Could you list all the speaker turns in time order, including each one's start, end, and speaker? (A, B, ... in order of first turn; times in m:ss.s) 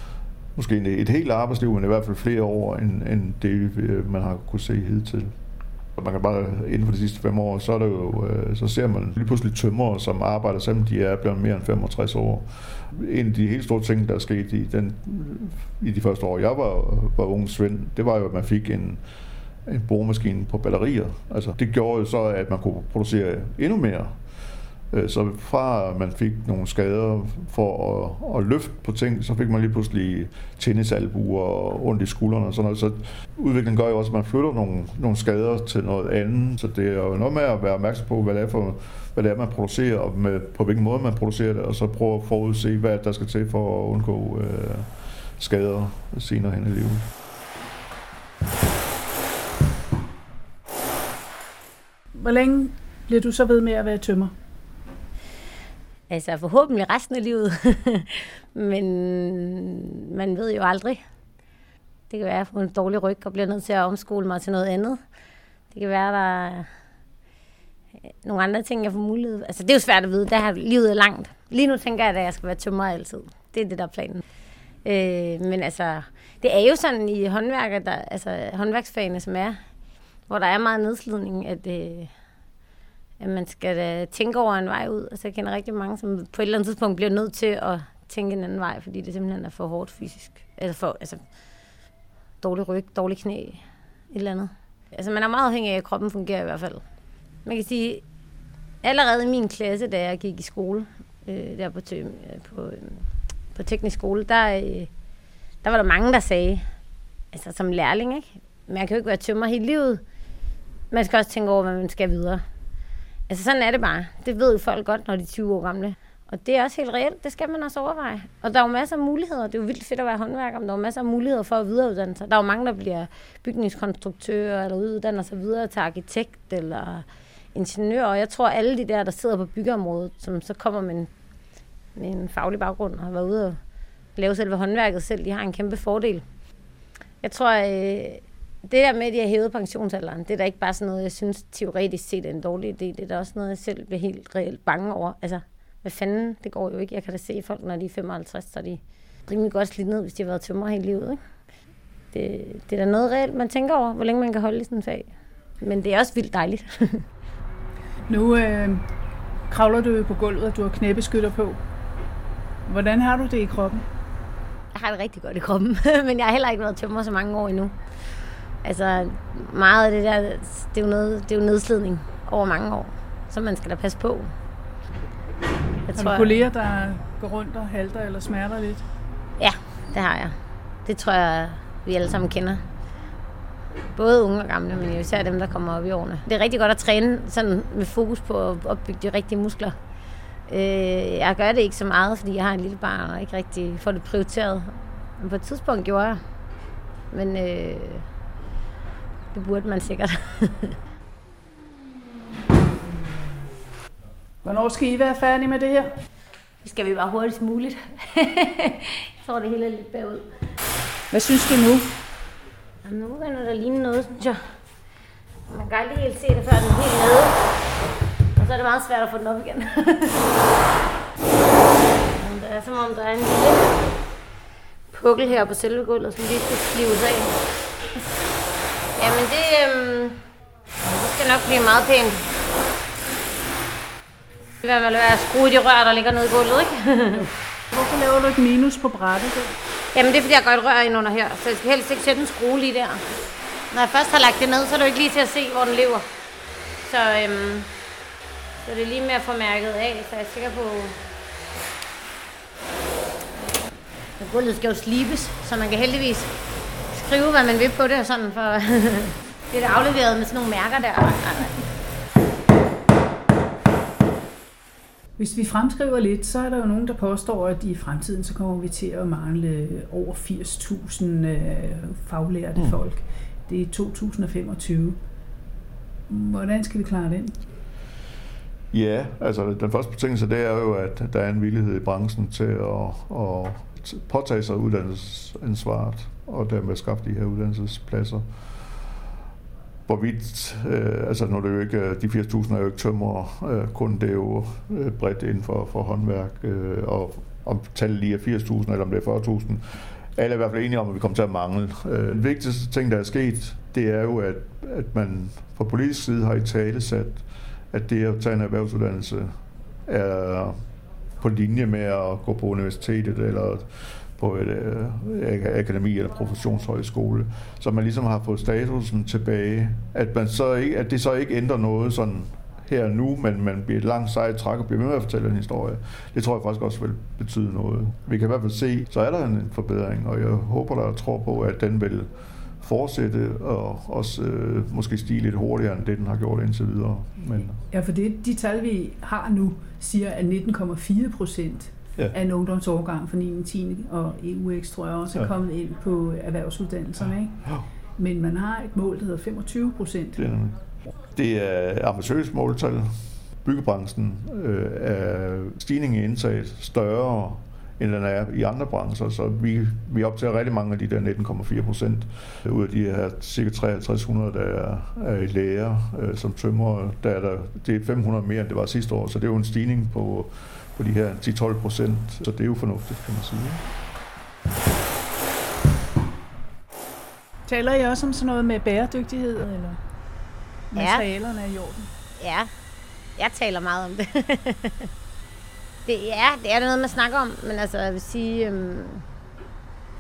0:00.6-0:05.3 A
0:06.0-0:19.0 A
0:19.7-0:24.2 A
0:24.9-0:47.1 A
0:52.1-0:54.3 B
0:56.1-1:01.0 C
1:02.1-1:05.0 C
1:05.7-1:06.7 C
1:08.2-1:14.2 C
1:14.8-1:19.6 C
1:20.3-1:22.1 C
1:23.2-1:31.2 C
1:32.4-1:36.8 C
1:37.4-1:38.0 C
1:38.8-1:44.9 C
1:45.6-1:46.7 C
1:47.3-1:50.0 C
1:50.9-1:52.4 C
1:53.3-2:11.1 C
2:12.0-2:13.6 C
2:14.2-2:16.2 C
2:17.2-2:31.2 C
2:32.1-2:35.1 C
2:35.6-2:37.0 C
2:38.1-2:38.8 B
2:39.5-2:41.6 B
2:42.7-2:43.8 B
2:44.7-2:47.8 C
2:48.6-2:54.3 C
2:55.9-2:56.4 C
2:56.0-2:58.8 B
2:59.4-3:02.6 C
3:03.9-3:09.8 C
3:10.5-3:16.2 C
3:17.1-3:18.0 C
3:19.3-3:20.8 C
3:24.4-3:25.9 B
3:26.6-3:30.3 C
3:31.1-3:31.9 B
3:32.8-3:34.4 C
3:35.5-3:37.4 C
3:38.4-3:40.3 C
3:42.1-3:44.0 C
3:44.9-3:47.4 C
3:49.0-3:50.2 C
3:50.8-3:52.2 C
3:54.6-3:57.3 C
3:57.7-3:59.5 B
3:59.9-4:03.0 C
4:03.7-4:06.1 C
4:06.9-4:07.7 C
4:08.6-4:11.0 C
4:14.2-4:16.3 C
4:16.9-4:21.6 C
4:25.2-4:35.0 B
4:36.1-4:37.4 B
4:38.7-4:48.2 A
4:49.9-5:09.3 A
5:09.9-5:10.6 A
5:11.2-5:37.6 A
5:37.7-5:50.2 B
5:50.2-6:13.6 A
6:17.5-6:19.8 B
6:20.7-6:21.9 B
6:20.8-6:21.0 C
6:22.2-6:22.5 C
6:23.2-6:24.9 C
6:25.9-6:29.0 C